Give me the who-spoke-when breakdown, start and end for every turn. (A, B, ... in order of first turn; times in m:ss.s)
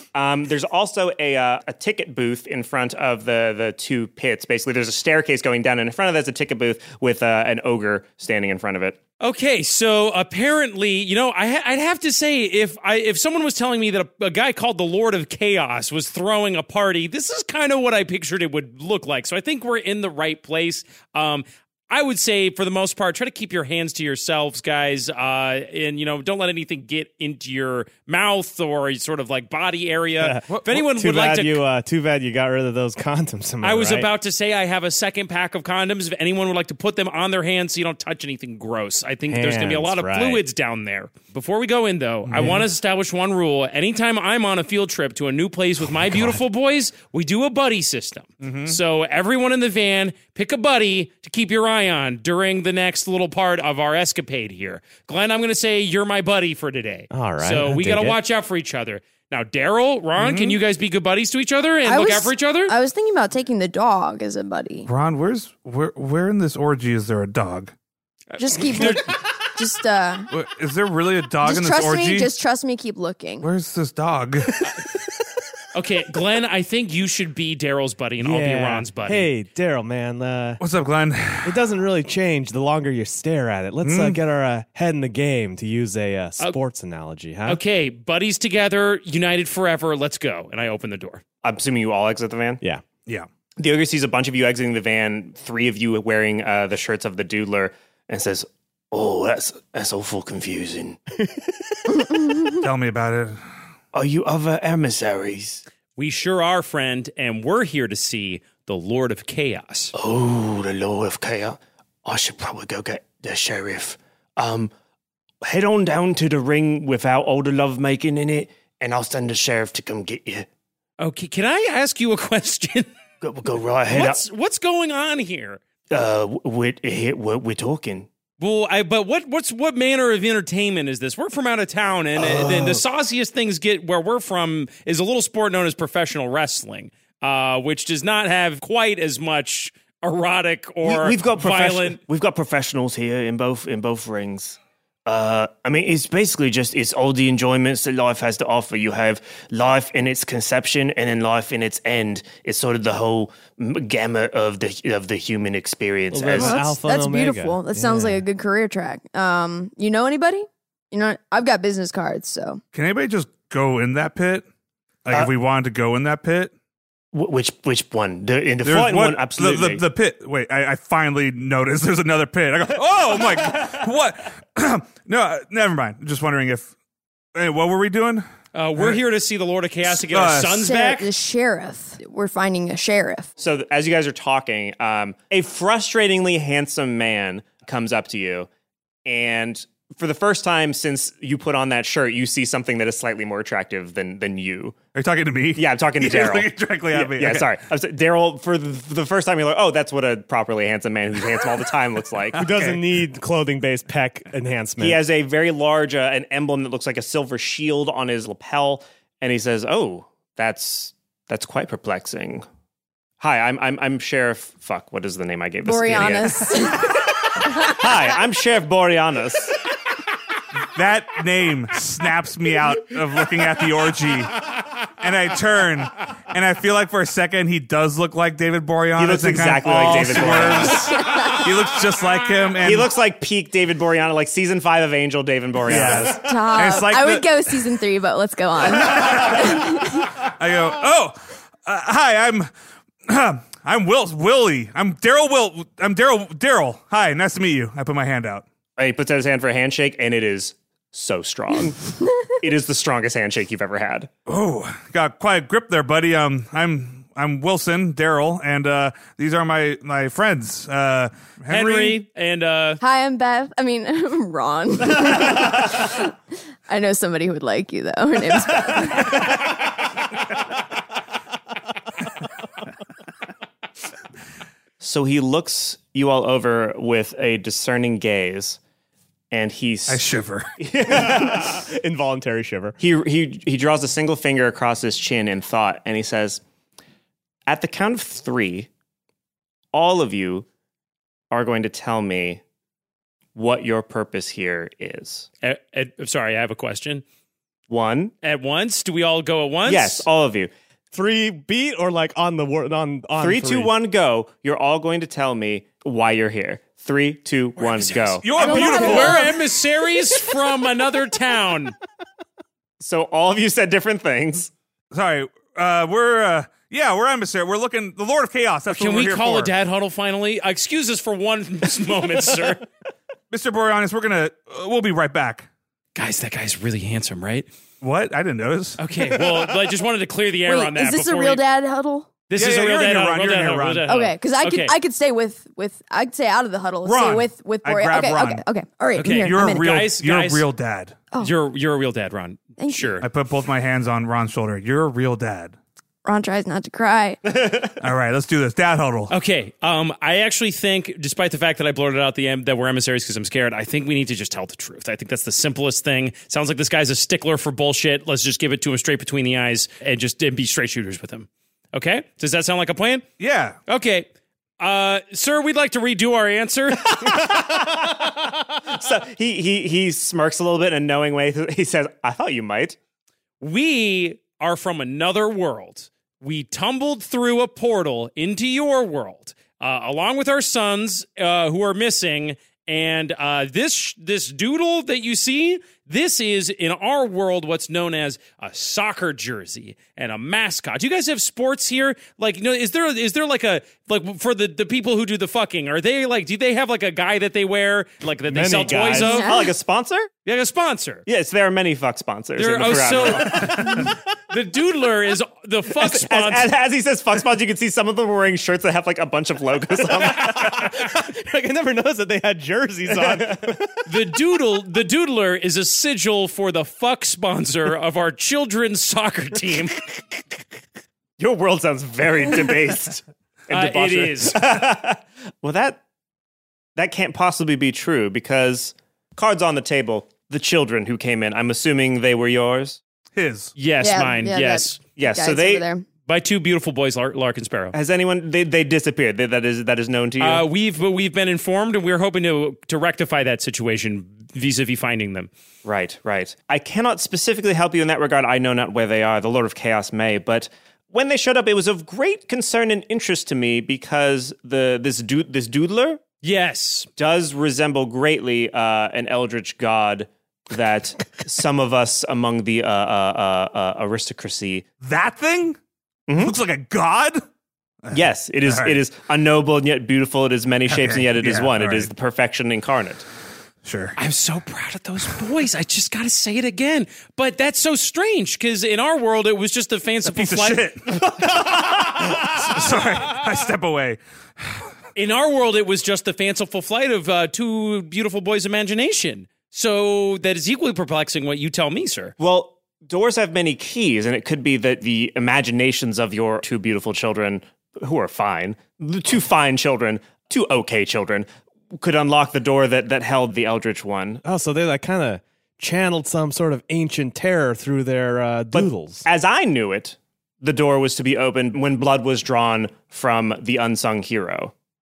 0:00.1-0:09.0 A
0:09.2-0:31.6 B
0:30.2-0:34.1 C
0:33.6-1:02.7 B
0:39.3-0:40.4 C
0:42.2-0:42.6 D
0:48.4-0:48.8 D
0:57.1-0:58.2 C
1:00.2-1:00.6 D
1:01.8-1:04.9 E
1:04.8-1:07.7 D
1:08.3-1:09.0 B
1:08.4-1:10.3 E
1:10.3-1:12.3 D
1:11.4-1:13.5 E
1:13.4-1:14.5 D
1:15.7-1:19.3 B
1:18.2-1:20.6 C
1:20.6-1:21.6 D
1:21.4-1:27.6 C
1:23.8-1:24.2 D
1:27.4-1:31.2 B
1:31.4-1:32.6 A
1:33.6-1:41.0 A
1:42.6-1:43.4 D
1:43.9-1:45.6 A
1:46.0-1:49.9 B
1:50.0-1:54.7 A
1:55.4-2:00.5 A
2:01.0-2:02.9 B
2:03.2-2:04.2 A
2:03.9-2:05.6 B
2:05.9-2:08.1 A
2:08.4-2:22.0 B
2:12.2-2:12.8 A
2:20.8-2:36.7 A
2:36.1-2:38.2 C
2:36.3-2:42.6 E
2:42.7-2:44.4 D
2:45.0-2:46.5 D
2:47.1-2:49.8 A
2:48.6-2:56.7 D
2:57.3-2:59.0 D
2:58.5-3:01.1 B
2:59.9-3:00.7 D
3:00.6-3:03.3 E
3:03.4-3:08.5 A
3:09.0-3:14.8 A
3:14.9-3:17.5 D
3:15.5-3:22.5 A
3:22.4-3:25.0 C
3:22.4-3:22.8 D
3:24.8-3:32.4 A
3:33.2-3:39.6 A
3:35.6-3:37.7 E
3:40.7-3:44.4 D
3:45.0-3:52.9 D
3:49.0-3:51.1 A
3:52.6-3:56.2 A
3:55.6-3:57.6 D
3:56.1-4:00.1 E
3:58.6-4:02.5 D
4:03.1-4:08.4 D
4:08.8-4:11.8 A
4:12.4-4:14.1 A
4:14.3-4:22.0 D
4:21.5-4:22.8 B
4:22.8-4:26.1 E
4:26.7-4:29.2 E
4:34.8-4:38.6 A
4:39.3-4:40.1 A
4:39.9-4:40.5 D
4:40.6-4:41.6 A
4:40.9-4:42.8 C
4:42.8-4:46.4 A
4:47.5-4:48.7 A
4:49.7-4:50.4 A
4:51.3-4:52.4 A
4:53.3-4:55.3 A
4:55.4-4:57.0 B
4:57.7-4:58.1 A
4:58.2-5:00.0 B
4:59.6-5:00.5 A
5:00.9-5:03.7 C
5:03.2-5:08.3 A
5:07.6-5:11.7 B
5:08.2-5:09.2 D
5:08.4-5:09.3 E
5:12.8-5:14.5 A
5:14.9-5:19.5 D
5:18.7-5:22.6 B
5:23.3-5:25.5 D
5:25.9-5:27.5 B
5:27.8-5:28.8 D
5:28.8-5:31.4 B
5:30.4-5:32.1 E
5:32.3-5:34.7 B
5:32.3-5:33.9 D
5:33.9-5:39.7 E
5:36.8-5:38.4 D
5:39.0-5:40.5 B
5:39.0-5:41.0 D
5:41.2-5:43.1 B
5:42.6-5:43.0 E
5:43.0-5:45.5 D
5:46.0-5:47.2 E
5:47.3-5:47.7 A
5:47.8-5:49.1 D
5:49.1-6:03.0 B
6:03.2-6:03.6 D
6:03.7-6:04.1 B
6:04.6-6:07.3 B
6:07.0-6:08.1 A
6:08.7-6:12.8 A
6:13.4-6:39.3 B
6:38.3-6:39.2 C
6:39.0-6:39.5 E
6:39.1-6:40.1 A
6:40.2-6:41.1 B
6:41.1-6:43.7 A
6:42.4-6:46.5 B
6:45.7-6:50.8 A
6:50.3-6:53.8 C
6:52.9-6:53.4 A
6:53.8-7:00.2 B
7:01.2-7:05.8 A
7:03.5-7:04.4 B
7:06.8-7:12.8 A
7:13.1-7:13.5 D
7:13.6-7:14.8 B
7:13.8-7:15.8 E
7:15.0-7:15.6 A
7:16.1-7:17.7 B
7:17.7-7:20.4 A
7:20.2-7:25.3 B
7:25.6-7:36.0 A
7:36.2-7:36.9 B
7:37.0-7:44.7 A
7:44.8-7:45.6 D
7:46.1-7:46.3 A
7:46.2-7:47.2 D
7:47.8-7:48.8 D
7:47.9-7:53.0 A
7:50.7-7:51.9 D
7:53.6-7:54.0 D
7:54.0-8:00.7 B
8:00.1-8:04.7 D
8:05.0-8:12.1 B
8:12.2-8:24.2 A
8:24.2-8:29.0 C
8:28.5-8:34.5 A